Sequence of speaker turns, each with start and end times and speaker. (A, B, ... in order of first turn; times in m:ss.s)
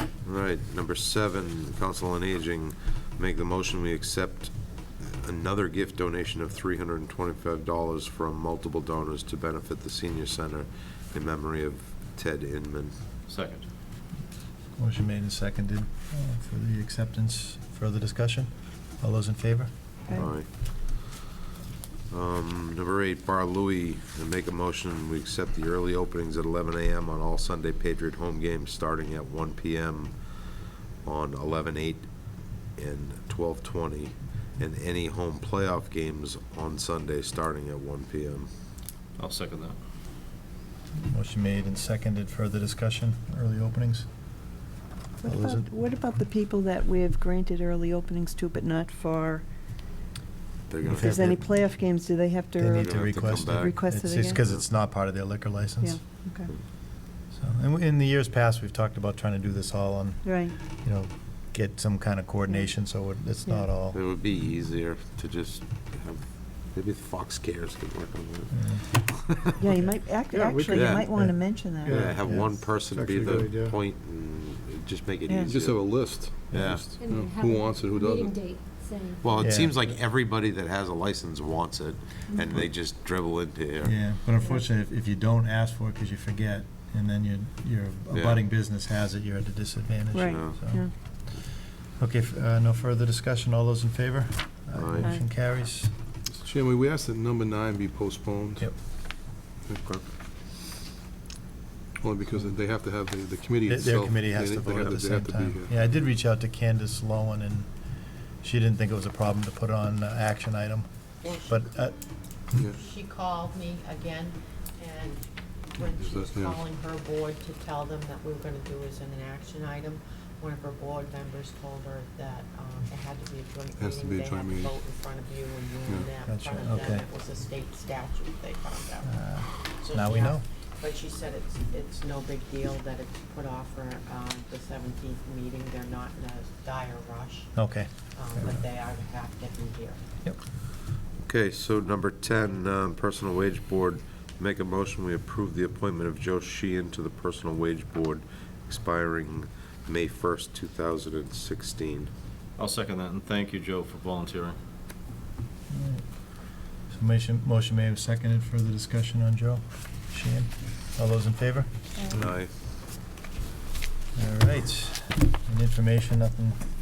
0:00.2-0:13.0 A
0:13.3-0:13.6 B
0:14.8-0:19.7 C
0:20.1-0:21.0 A
0:22.1-0:30.2 A
0:31.0-0:32.1 A
0:32.8-0:38.5 A
0:39.2-0:39.8 B
0:40.9-0:44.1 C
0:45.2-0:49.4 D
0:45.2-0:45.7 C
0:50.7-0:51.4 A
0:50.8-0:51.6 C
0:50.9-0:54.4 D
0:52.6-0:56.0 C
0:52.8-0:53.8 A
0:54.4-0:54.7 A
0:55.8-0:56.5 D
0:57.3-1:04.0 C
1:00.2-1:00.5 D
1:03.4-1:03.7 D
1:03.9-1:09.4 A
1:08.5-1:13.6 C
1:09.6-1:12.0 D
1:10.7-1:11.1 A
1:11.9-1:16.9 A
1:11.9-1:12.2 E
1:13.1-1:13.6 E
1:15.3-1:15.5 D
1:15.4-1:18.4 E
1:17.0-1:19.4 F
1:19.2-1:24.0 A
1:19.4-1:19.8 C
1:23.8-1:35.9 C
1:28.1-1:28.4 A
1:30.1-1:30.9 D
1:30.3-1:30.6 A
1:34.8-1:35.2 A
1:35.0-1:35.4 D
1:36.3-1:38.8 E
1:42.0-1:45.8 E
1:43.6-1:47.7 C
1:48.4-1:50.9 C
1:51.2-1:51.7 G
1:51.4-1:52.0 C
1:52.6-2:09.1 G
1:55.9-1:56.6 E
2:03.8-2:04.9 E
2:06.2-2:07.1 C
2:09.0-2:10.4 C
2:09.8-2:17.5 G
2:17.5-2:18.6 C
2:18.1-2:20.0 G
2:21.2-2:32.1 A
2:32.6-2:34.6 B
2:35.7-2:41.7 C
2:42.1-2:42.5 A
2:44.2-2:46.6 C